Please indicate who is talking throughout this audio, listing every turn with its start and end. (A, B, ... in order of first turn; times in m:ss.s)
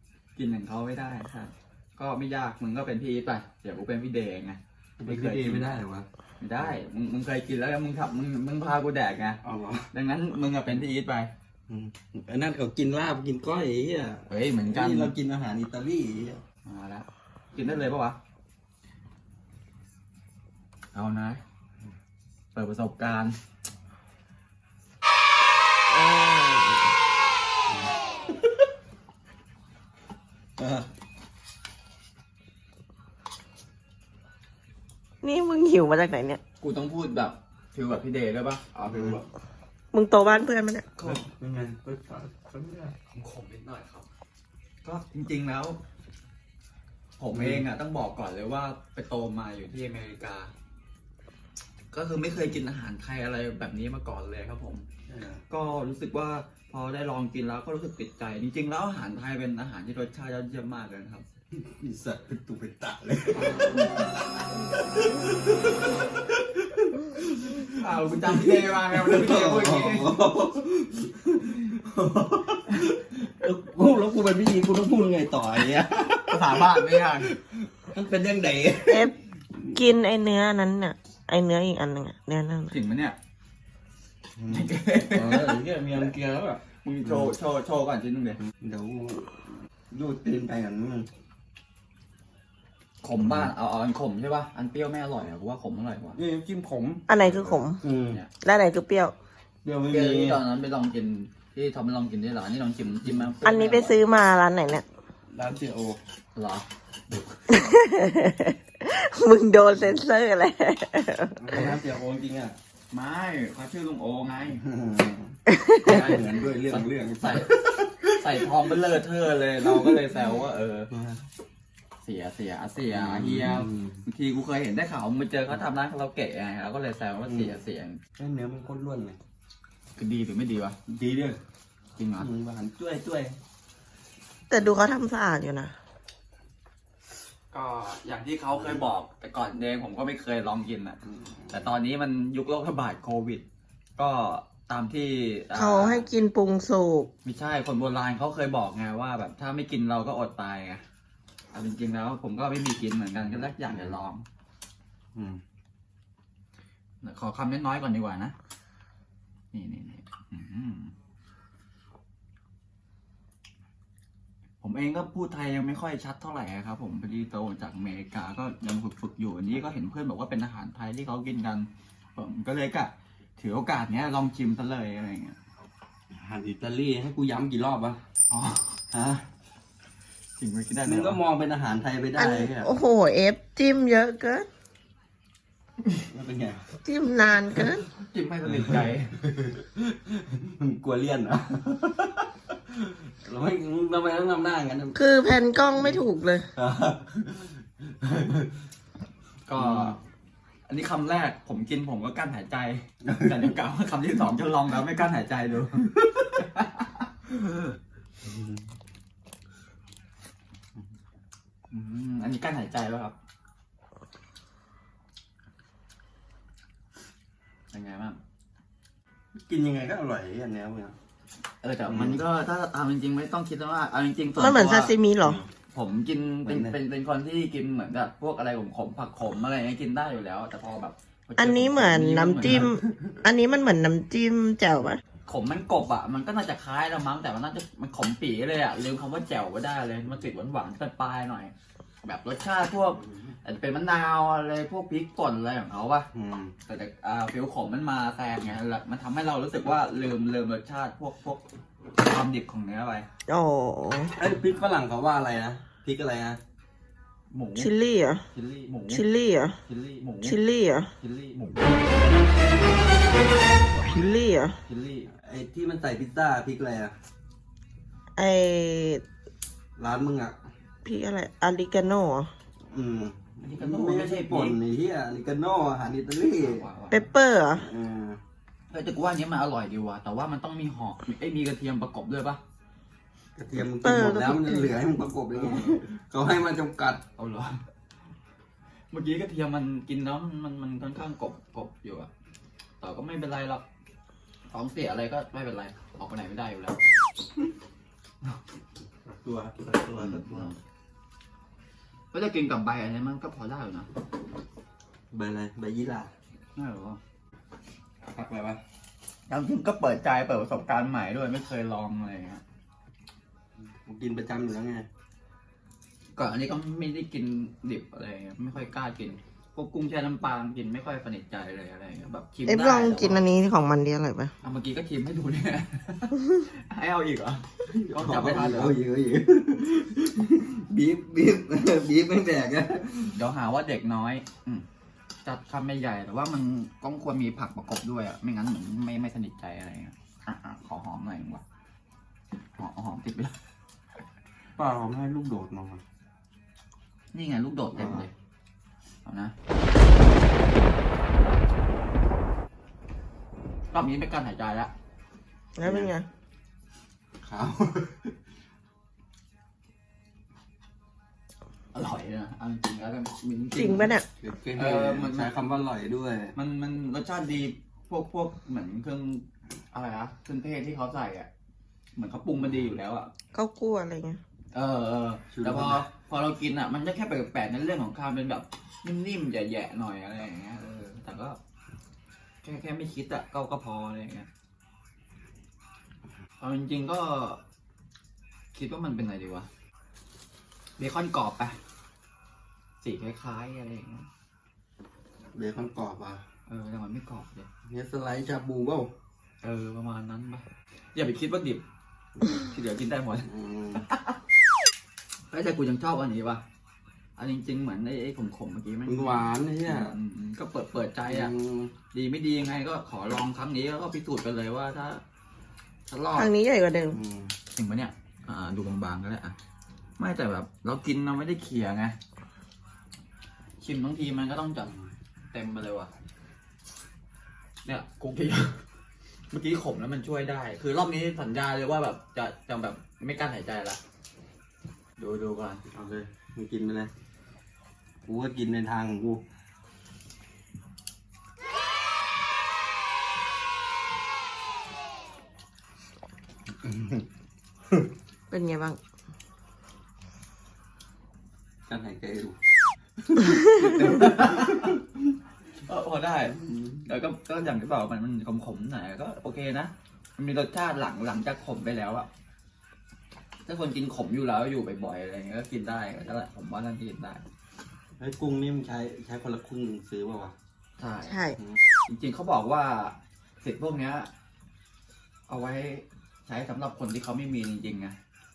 0:00.4-0:05.7 A
0:05.0-0:06.1 B
0:06.4-0:09.4 A
0:09.4-0:09.9 B
0:09.9-0:11.3 A
0:11.7-0:16.4 B
0:14.3-0:15.1 A
0:16.6-0:18.2 A
0:20.9-0:21.4 A
0:22.5-0:23.4 A
0:25.9-0:26.9 C
0:30.6-0:30.9 B
0:35.2-0:36.4 C
0:36.6-0:39.2 A
0:38.9-0:39.2 B
0:39.9-0:40.8 C
0:41.0-0:41.3 A
0:41.0-0:43.0 B
0:43.1-0:44.1 A
0:44.8-0:45.8 A
0:47.2-0:50.5 A
0:47.3-0:47.6 B
0:51.9-0:54.8 A
0:55.1-0:55.4 B
0:55.5-1:01.2 A
1:01.5-1:04.0 B
1:04.9-1:19.1 B
1:07.6-1:10.2 A
1:16.2-1:17.3 A
1:18.8-1:19.2 C
1:19.7-1:22.7 C
1:22.7-1:23.2 A
1:24.4-1:27.3 B
1:24.5-1:26.1 A
1:26.6-1:28.4 A
1:28.6-1:29.4 B
1:29.9-1:31.1 B
1:33.0-1:36.2 A
1:36.1-1:37.1 B
1:37.1-1:37.8 C
1:37.2-1:38.3 A
1:37.8-1:38.2 B
1:38.4-1:39.1 C
1:39.6-1:40.4 B
1:39.9-1:44.0 A
1:43.0-1:43.3 B
1:43.4-1:44.8 C
1:45.3-1:46.0 B
1:46.3-1:47.4 A
1:47.5-1:51.6 C
1:51.4-1:52.6 B
1:52.9-1:54.6 A
1:54.6-1:55.4 B
1:55.5-1:56.0 C
1:55.8-1:57.5 A
1:55.9-1:58.1 B
1:58.0-2:00.9 A
1:59.6-2:00.0 B
2:00.9-2:01.2 B
2:02.0-2:08.0 A
2:02.9-2:04.0 B
2:07.3-2:07.6 B
2:08.2-2:09.2 B
2:10.0-2:10.8 A
2:10.9-2:11.4 B
2:12.0-2:12.3 A
2:12.2-2:13.4 B
2:14.5-2:15.7 C
2:17.5-2:23.4 A
2:24.0-2:26.1 A
2:25.5-2:27.1 C
2:27.2-2:30.8 A
2:31.5-2:34.2 A
2:33.6-2:34.0 B
2:35.1-2:35.4 B
2:37.0-2:38.3 A
2:39.5-2:40.9 A
2:44.6-2:55.4 A
2:56.1-2:58.0 B
2:58.3-2:58.8 A
2:58.9-2:59.2 B
3:00.4-3:01.2 A
3:00.8-3:02.7 B
3:02.2-3:04.5 C
3:06.1-3:06.6 B
3:06.8-3:07.8 C
3:07.7-3:09.2 A
3:09.3-3:15.0 B
3:14.9-3:16.5 C
3:16.6-3:18.5 B
3:19.4-3:20.0 A
3:19.6-3:20.0 B
3:20.7-3:27.1 A
3:23.0-3:23.5 B
3:28.2-3:28.6 B
3:31.7-3:33.1 A
3:37.7-3:38.2 A
3:39.4-3:41.0 B
3:41.6-3:44.9 A
3:41.8-3:42.2 B
3:44.4-3:45.4 C
3:45.2-3:45.5 B
3:45.7-3:52.7 A
3:46.4-3:46.8 B
3:51.4-3:55.0 C
3:52.6-3:53.1 B
3:55.2-4:06.1 A
4:06.1-4:06.5 B
4:06.6-4:11.4 A
4:12.0-4:13.1 A
4:13.3-4:14.2 C
4:14.2-4:16.4 B
4:17.3-4:17.7 A
4:17.6-4:18.2 C
4:18.3-4:19.0 A
4:18.9-4:19.6 C
4:19.6-4:20.4 A
4:20.2-4:20.9 C
4:21.0-4:21.9 A
4:23.9-4:24.6 C
4:24.6-4:25.1 A
4:25.2-4:26.9 B
4:28.2-4:29.0 C
4:29.8-4:30.4 B
4:30.8-4:32.3 C
4:32.7-4:36.7 B
4:33.4-4:34.6 A
4:36.4-4:37.1 A
4:36.9-4:37.7 C
4:37.6-4:38.2 B
4:38.7-4:42.4 A
4:43.4-4:47.0 B
4:43.8-4:44.7 C
4:45.3-4:45.8 A
4:47.2-4:47.6 A
4:48.9-4:52.1 A
4:52.8-4:53.6 A
4:54.5-4:56.8 A
4:59.1-5:00.6 B
4:59.9-5:00.6 A
5:02.1-5:03.9 A
5:05.1-5:06.1 B
5:06.5-5:07.0 A
5:08.0-5:08.6 B
5:09.3-5:12.4 A
5:13.8-5:14.9 B
5:16.1-5:23.3 A
5:22.4-5:24.3 C
5:24.4-5:28.8 A
5:27.6-5:33.2 B
5:33.1-5:34.6 A
5:35.2-5:41.4 A
5:42.6-5:43.3 A
5:44.6-5:45.8 B
5:47.1-5:48.1 A
5:47.7-5:48.1 B
5:49.0-5:49.3 A
5:53.7-5:54.7 A
5:55.6-5:56.1 C
5:55.6-5:55.9 B
5:57.2-5:58.2 B
6:01.7-6:04.0 A
6:03.6-6:04.0 C
6:04.2-6:06.4 B
6:04.5-6:05.3 A
6:06.3-6:11.3 A
6:11.9-6:13.1 A
6:12.4-6:12.7 B
6:13.3-6:14.2 C
6:14.5-6:21.4 A
6:15.3-6:15.9 B
6:22.4-6:24.3 A
6:26.4-6:27.4 A
6:28.5-6:29.5 A
6:30.8-6:31.6 A
6:32.8-6:34.1 A
6:35.3-6:36.2 B
6:36.5-6:37.5 A
6:37.7-6:38.9 B
6:39.4-6:41.6 A
6:42.2-6:44.2 A
6:43.2-6:43.8 B
6:45.3-6:46.4 A
6:47.2-6:51.3 A
6:48.8-6:50.0 B
6:51.0-6:51.7 B
6:51.9-6:55.0 A
6:55.9-6:56.3 A
6:56.1-6:57.0 C
6:56.9-6:57.4 B
6:57.5-6:59.4 A
7:00.0-7:02.0 A
7:03.6-7:04.7 A
7:05.3-7:05.9 A
7:07.6-7:08.5 A
7:09.3-7:13.8 A
7:15.0-7:15.6 A
7:15.7-7:16.9 B
7:18.0-7:19.2 B
7:26.6-7:27.0 B
7:28.3-7:28.8 C
7:31.6-7:32.4 B
7:33.4-7:34.8 A
7:33.9-7:34.8 B
7:35.6-7:42.1 A
7:36.4-7:36.8 B
7:43.4-7:47.2 A
7:48.0-7:50.3 B
7:50.8-7:51.2 A
7:51.0-7:51.4 C
7:51.9-7:54.1 A
7:55.3-7:58.0 A